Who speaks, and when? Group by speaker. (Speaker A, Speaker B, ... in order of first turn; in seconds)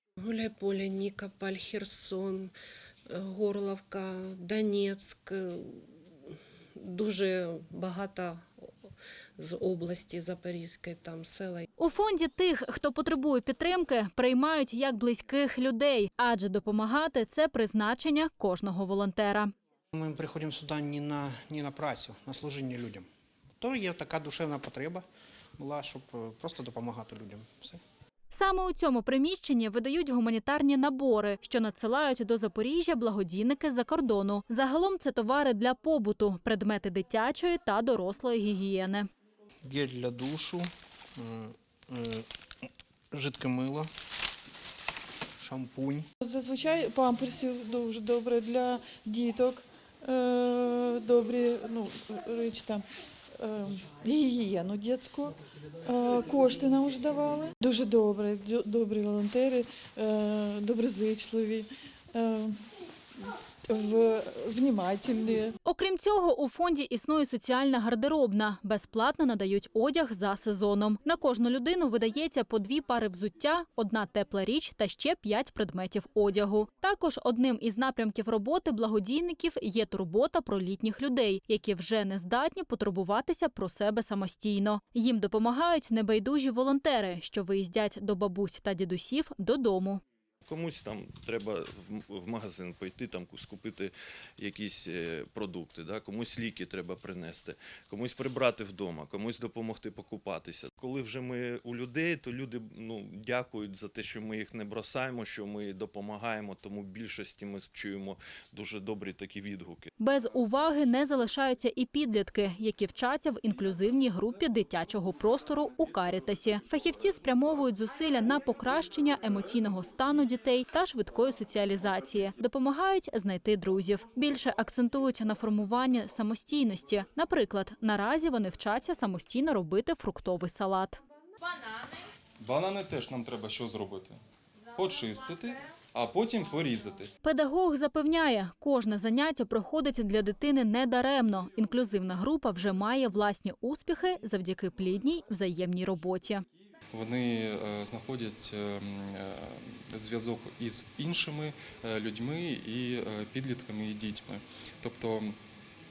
Speaker A: 0.2-2.5, 3.1-8.6, 9.4-11.7
Speaker B: 11.8-19.5, 28.3-39.1, 65.6-90.0, 110.0-131.0, 137.2-146.4
Speaker C: 19.9-23.0, 23.6-25.0, 25.6-27.8, 39.6-42.3, 43.1-43.9, 45.4-46.1
Speaker D: 46.2-62.6, 63.2-65.5
Speaker E: 90.5-109.9
Speaker F: 132.4-134.2, 134.7-137.1, 146.9-155.4